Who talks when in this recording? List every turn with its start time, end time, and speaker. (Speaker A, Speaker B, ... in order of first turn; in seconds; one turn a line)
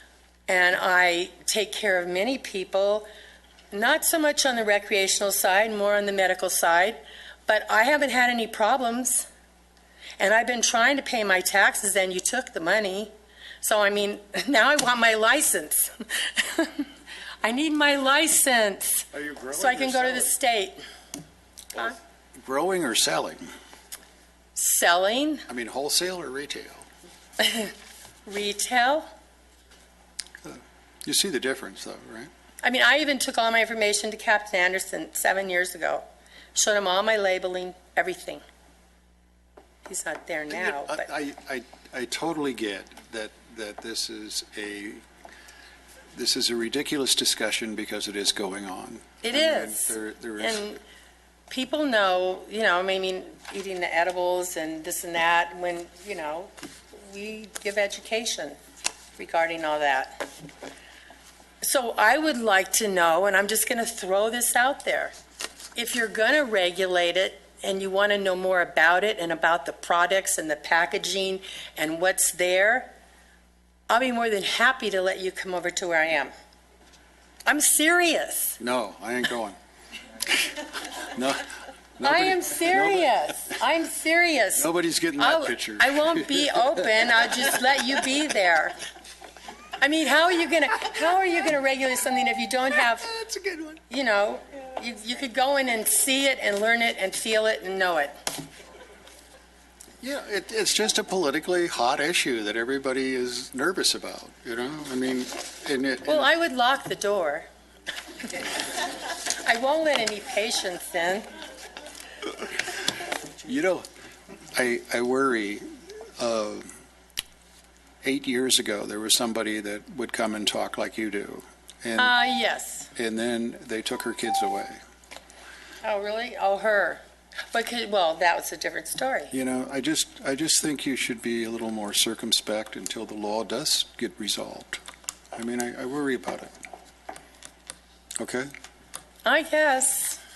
Speaker A: 0.5-3.1
Speaker A: 3.7-9.3
Speaker A: 10.2-16.9
Speaker A: 17.4-20.8
Speaker B: 19.1-20.3
Speaker B: 22.4-23.4
Speaker A: 24.6-25.4
Speaker B: 25.5-26.9
Speaker A: 27.4-27.7
Speaker A: 28.3-29.1
Speaker B: 30.4-32.3
Speaker A: 32.6-38.4
Speaker A: 39.9-41.0
Speaker B: 40.5-45.0
Speaker B: 46.1-50.7
Speaker A: 49.2-50.8
Speaker A: 51.5-58.6
Speaker A: 59.2-60.3
Speaker A: 61.6-65.1
Speaker A: 65.8-72.9
Speaker A: 73.9-76.3
Speaker A: 77.5-78.6
Speaker B: 78.6-79.6
Speaker B: 80.9-83.5
Speaker A: 82.0-88.8
Speaker B: 84.6-86.9
Speaker A: 89.8-93.1
Speaker B: 93.1-93.8
Speaker A: 93.9-98.2
Speaker B: 100.0-106.3
Speaker A: 106.1-107.5
Speaker A: 109.3-111.3
Speaker B: 113.4-113.9
Speaker B: 114.5-116.7
Speaker B: 118.0-122.1
Speaker A: 122.0-122.9
Speaker B: 123.0-124.8
Speaker A: 125.8-127.0
Speaker A: 127.5-129.3
Speaker B: 129.3-134.8
Speaker B: 135.3-136.5
Speaker B: 138.2-138.5
Speaker A: 139.2-140.2